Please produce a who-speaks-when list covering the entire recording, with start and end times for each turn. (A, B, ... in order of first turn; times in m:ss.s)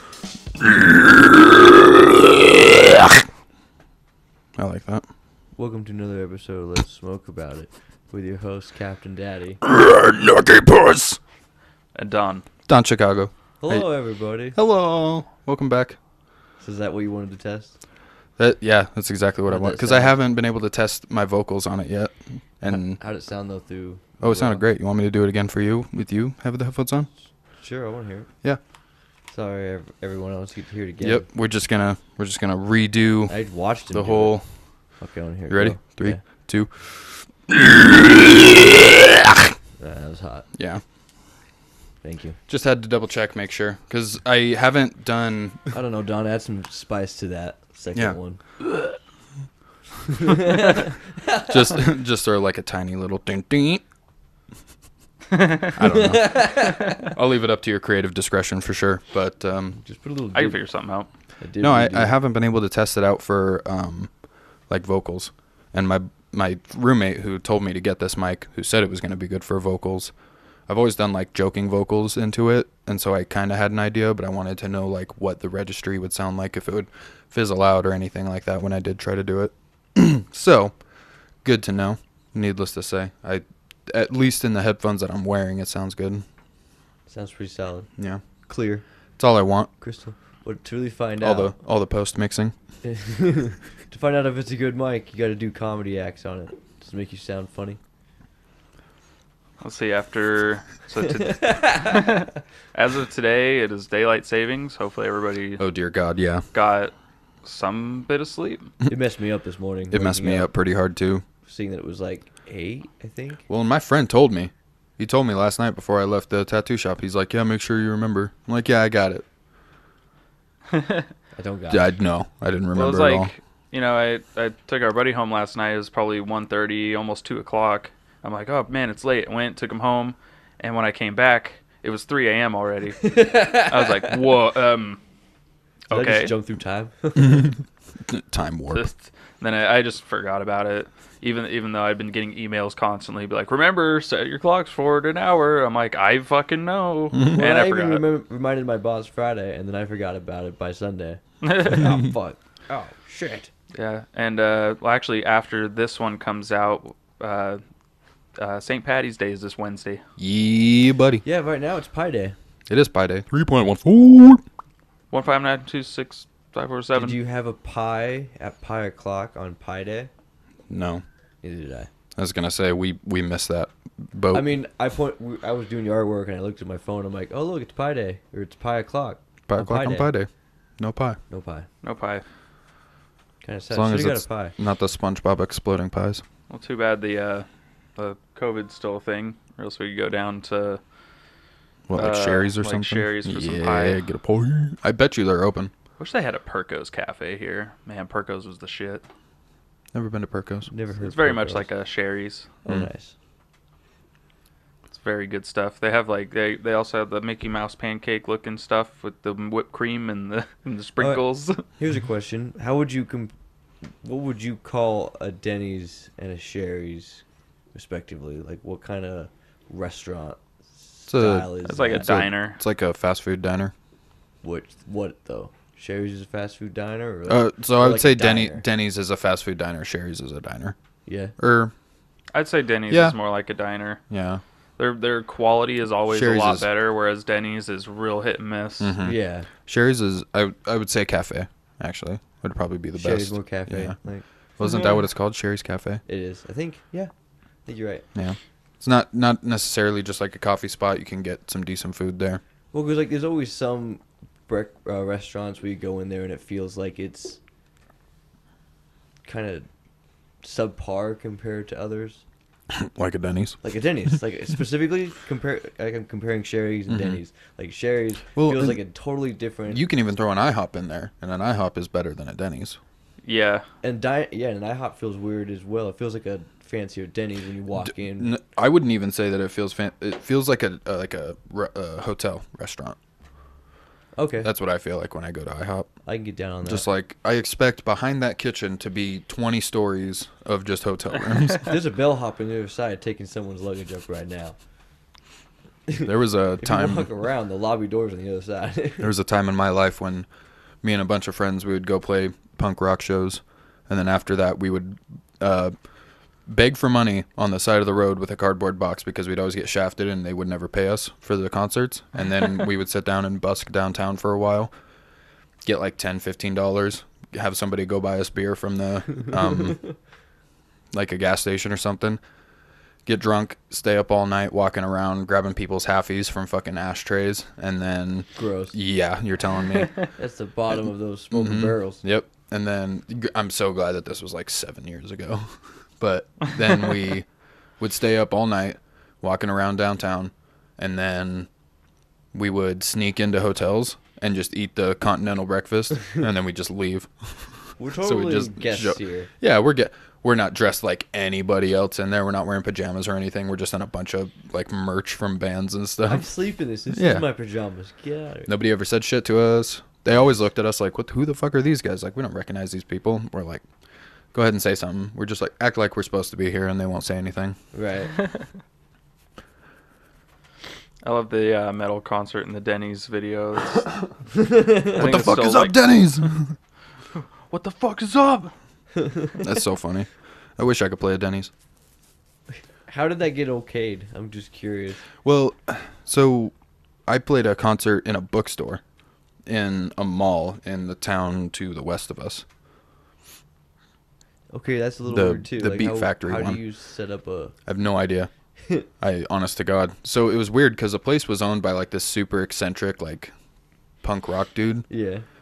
0:00.6-0:03.2 A
0:04.6-0:05.0 A
0:05.6-0:09.6 B
0:09.6-0:11.2 A
0:11.9-0:12.4 C
0:12.7-0:13.8 A
0:13.6-0:14.6 B
0:14.5-0:16.0 A
0:16.6-0:17.8 B
0:18.4-0:23.0 A
0:19.5-0:20.2 B
0:22.7-0:24.6 B
0:24.2-0:27.1 A
0:27.6-0:28.3 B
0:29.3-0:31.3 B
0:31.0-0:33.3 A
0:33.3-0:34.4 B
0:33.9-0:34.4 A
0:35.0-0:36.2 B
0:35.5-0:39.5 A
0:39.8-0:40.5 B
0:40.6-0:40.8 A
0:42.0-0:42.4 B
0:42.5-0:45.6 A
0:45.7-0:48.4 B
0:50.1-0:51.8 B
0:51.5-0:53.8 A
0:55.3-0:55.8 C
0:55.8-0:59.8 A
0:55.8-0:57.1 B
0:59.8-1:00.6 B
1:00.3-1:01.1 C
1:01.4-1:02.1 B
1:01.6-1:04.1 A
1:04.7-1:10.1 A
1:10.7-1:20.8 A
1:21.4-1:26.2 A
1:27.1-1:27.9 B
1:28.0-1:28.2 A
1:28.4-1:28.8 B
1:29.2-1:29.7 A
1:29.8-1:31.5 B
1:31.2-1:32.5 A
1:32.8-1:37.8 B
1:39.6-1:45.6 C
1:41.2-1:42.0 B
1:45.6-1:46.5 A
1:46.5-1:48.7 C
1:48.9-1:50.5 B
1:49.9-1:51.2 A
1:51.4-1:53.4 B
1:53.5-1:59.2 A
2:00.7-2:01.1 C
2:01.4-2:01.9 B
2:01.7-2:03.3 A
2:02.7-2:15.0 C
2:13.0-2:14.2 B
2:15.9-2:16.3 C
2:15.9-2:17.5 B
2:17.2-2:18.9 A
2:18.7-2:28.0 C
2:27.1-2:27.4 A
2:27.3-2:33.5 B
2:31.4-2:32.0 C
2:33.7-2:37.6 C
2:38.4-2:40.0 C
2:40.2-2:41.2 A
2:41.2-2:42.4 B
2:42.7-2:44.4 A
2:45.1-2:47.2 C
2:46.9-2:50.1 B
2:50.7-2:51.0 A
2:51.4-2:51.9 B
2:52.2-2:54.4 A
2:54.3-3:00.1 B
2:59.5-3:01.2 A
3:01.3-3:01.7 B
3:01.8-3:02.2 C
3:03.4-3:04.5 B
3:03.7-3:06.2 A
3:06.5-3:07.4 C
3:08.0-3:10.8 C
3:11.9-3:15.7 A
3:11.9-3:14.0 C
3:16.0-3:19.0 C
3:19.9-3:20.7 A
3:20.7-3:21.7 B
3:21.0-3:22.6 C
3:22.6-3:23.1 B
3:24.9-3:31.6 C
3:31.0-3:33.3 B
3:34.0-3:37.2 B
3:37.7-3:42.1 B
3:41.1-3:43.7 A
3:41.6-3:42.6 C
3:44.4-3:48.6 B
3:47.3-3:50.8 A
3:51.0-3:51.3 B
3:51.4-3:51.7 A
3:52.3-3:54.0 C
3:52.9-3:53.2 A
3:54.1-3:54.4 A
3:54.8-3:59.0 C
3:56.1-3:56.7 A
3:58.8-4:04.0 A
3:59.0-3:59.5 B
4:03.0-4:04.2 B
4:04.6-4:06.0 A
4:06.0-4:07.1 B
4:07.6-4:08.0 B
4:08.1-4:12.4 A
4:12.7-4:17.4 B
4:19.2-4:19.7 B
4:20.4-4:22.2 B
4:22.7-4:23.6 A
4:23.6-4:29.8 B
4:26.9-4:27.2 A
4:28.3-4:28.8 A
4:29.7-4:32.8 A
4:33.2-4:33.6 C
4:33.8-4:38.3 B
4:37.8-4:43.0 A
4:44.2-4:44.5 B
4:44.4-4:45.9 A
4:46.0-4:46.8 B
4:46.6-4:51.7 A
4:51.6-4:54.6 B
4:55.9-4:59.1 B
4:56.0-4:57.1 A
4:59.0-5:00.3 A
5:00.8-5:05.7 A
5:06.5-5:14.7 A
5:15.6-5:19.8 A
5:19.7-5:19.9 B
5:20.9-5:22.2 A
5:23.0-5:30.0 A
5:28.4-5:28.8 B
5:30.1-5:32.0 B
5:31.3-5:37.3 A
5:37.8-5:41.5 A
5:42.3-5:56.3 A
5:47.8-5:49.3 B
5:56.1-5:58.5 B
5:56.9-5:57.2 A
5:58.5-6:03.6 A
6:04.3-6:07.6 A
6:07.7-6:08.1 B
6:08.1-6:08.5 C
6:11.0-6:14.1 C
6:14.3-6:15.0 B
6:14.8-6:15.9 C
6:14.9-6:16.5 A
6:17.1-6:18.5 C
6:19.0-6:19.3 B
6:19.4-6:21.5 A
6:22.9-6:25.0 B
6:25.2-6:26.5 A
6:27.1-6:28.8 A
6:29.5-6:32.4 A
6:34.5-6:37.5 B
6:35.0-6:36.6 A
6:37.6-6:38.3 A
6:39.0-6:43.3 A
6:44.0-6:44.9 A
6:44.9-6:45.2 B